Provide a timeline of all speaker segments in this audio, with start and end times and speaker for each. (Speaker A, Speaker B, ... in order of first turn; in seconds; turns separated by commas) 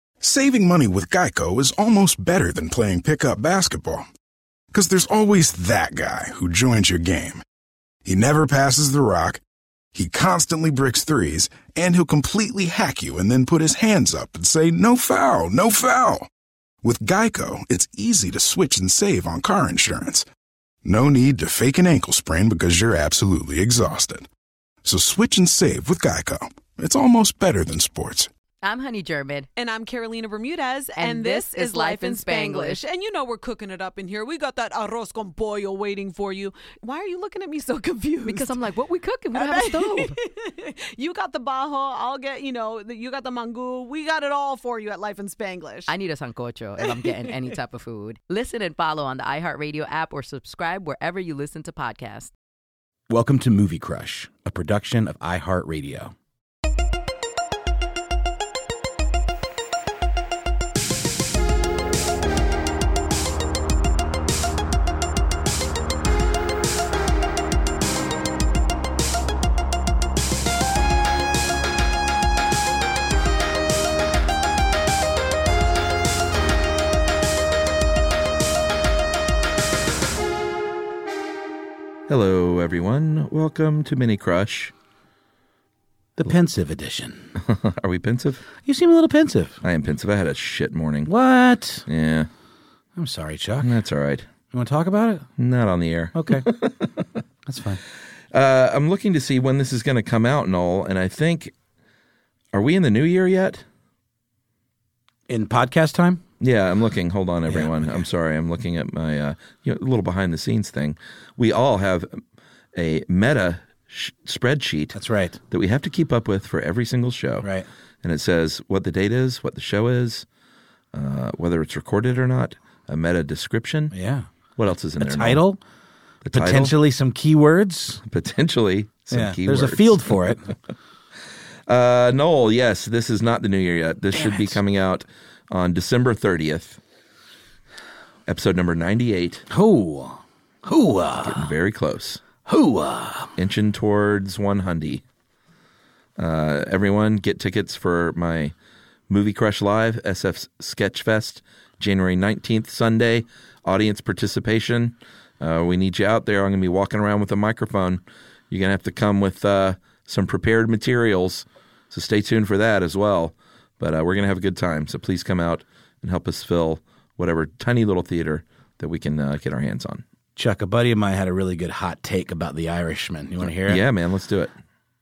Speaker A: 0.2-4.1, Speaker A: 4.7-7.4, Speaker A: 8.1-9.4, Speaker A: 9.9-16.3, Speaker A: 16.8-20.3, Speaker A: 20.8-24.3, Speaker A: 24.8-28.3, Speaker B: 28.6-29.5, Speaker C: 29.6-38.6, Speaker B: 31.0-32.8, Speaker B: 38.3-40.2, Speaker C: 39.3-45.9, Speaker B: 45.9-52.3, Speaker C: 46.8-47.5, Speaker D: 53.1-56.1, Speaker E: 82.1-84.7, Speaker D: 86.2-87.3, Speaker E: 87.4-88.5, Speaker D: 88.7-89.6, Speaker E: 89.6-91.1, Speaker D: 91.1-91.9, Speaker E: 91.9-92.3, Speaker D: 93.0-93.7, Speaker E: 93.6-94.3, Speaker D: 94.5-95.3, Speaker E: 95.4-96.9, Speaker D: 96.1-96.5, Speaker D: 97.5-97.8, Speaker E: 98.3-101.5, Speaker E: 102.5-103.6, Speaker D: 105.3-106.2, Speaker E: 106.4-112.2, Speaker D: 107.5-108.1, Speaker E: 112.8-115.0, Speaker D: 114.9-115.4, Speaker E: 115.5-117.5, Speaker D: 117.4-117.7, Speaker E: 118.0-120.3, Speaker E: 120.9-123.9, Speaker D: 123.9-124.3, Speaker E: 124.6-125.4, Speaker D: 125.0-125.6, Speaker E: 126.2-126.8, Speaker D: 126.3-128.0, Speaker E: 128.1-130.2, Speaker D: 129.1-130.5, Speaker E: 131.7-136.8, Speaker D: 134.1-134.6, Speaker E: 138.3-139.5, Speaker D: 139.5-141.5, Speaker E: 141.2-142.2, Speaker D: 142.4-143.3, Speaker E: 143.4-145.0, Speaker E: 146.2-148.5, Speaker E: 149.1-170.0, Speaker D: 170.4-173.8, Speaker E: 173.4-174.5